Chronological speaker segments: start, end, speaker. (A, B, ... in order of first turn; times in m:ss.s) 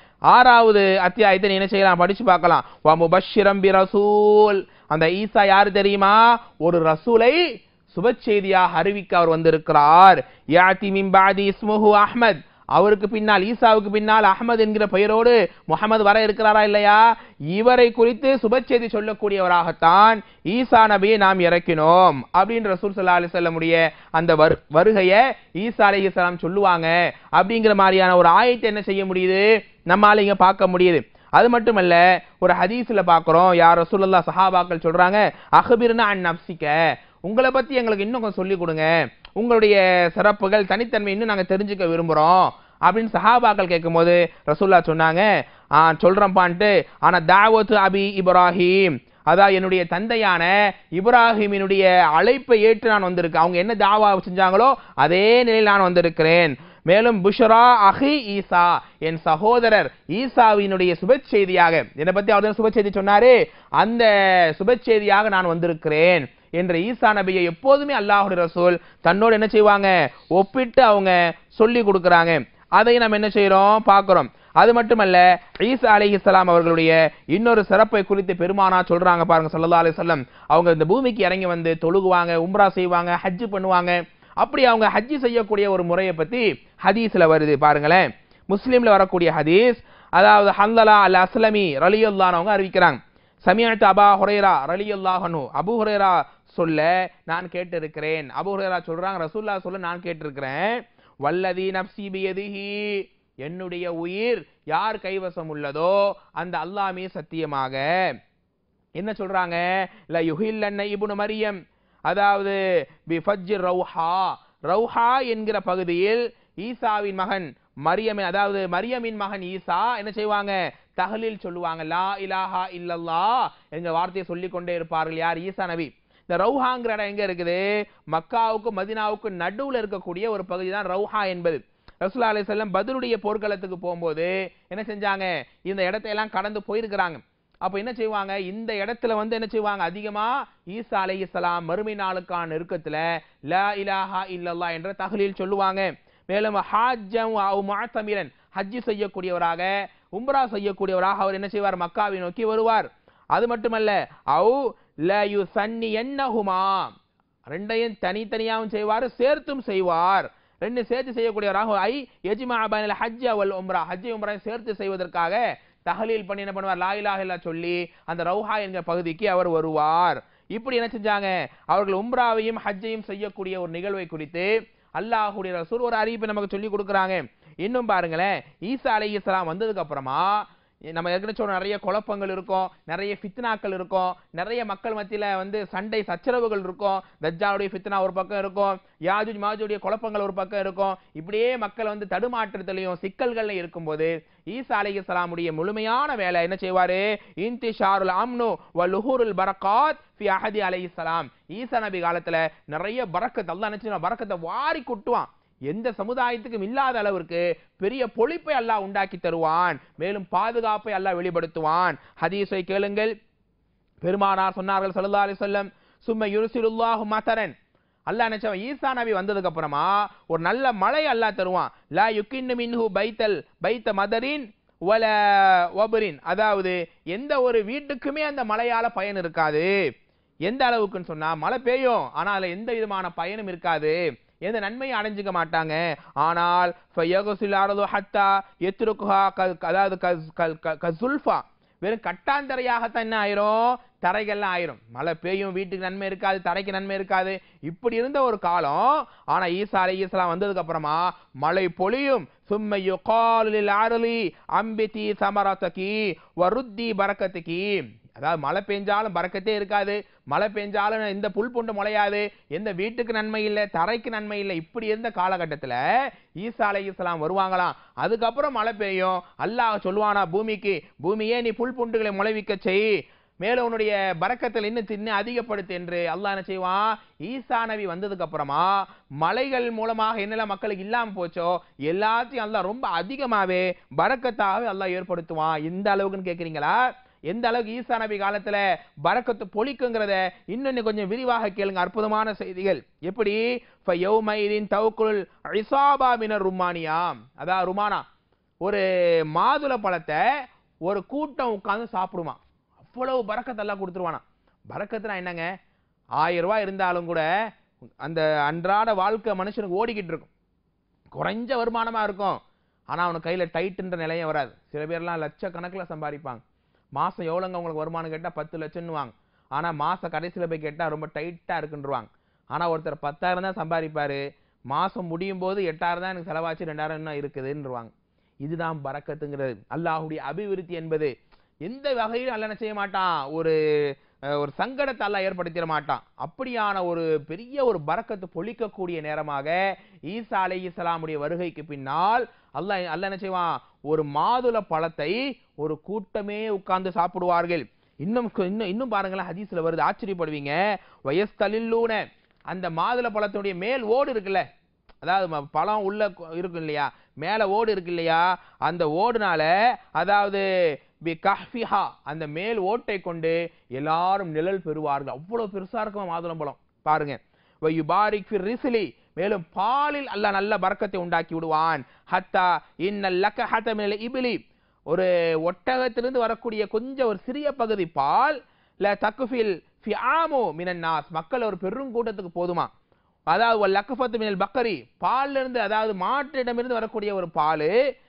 0:00.3-0:45.3 A
0:45.8-1:47.8 A
1:49.0-2:36.9 A
2:37.5-3:00.4 A
3:01.0-3:33.1 A
3:34.0-3:37.5 A
3:38.1-3:49.7 A
3:50.5-4:25.8 A
4:26.4-4:32.9 A
4:33.4-4:38.7 A
4:39.2-4:58.0 A
4:59.3-5:00.2 A
5:00.9-5:05.5 A
5:06.2-5:07.2 A
5:08.0-5:10.3 A
5:11.2-5:12.4 A
5:12.9-5:16.4 A
5:17.0-5:24.2 A
5:24.7-5:27.9 A
5:28.4-5:31.1 A
5:31.7-5:33.6 A
5:34.3-5:39.6 A
5:40.1-5:54.4 A
5:55.0-6:00.4 A
6:01.1-6:14.4 A
6:14.9-6:22.7 A
6:23.3-6:27.7 A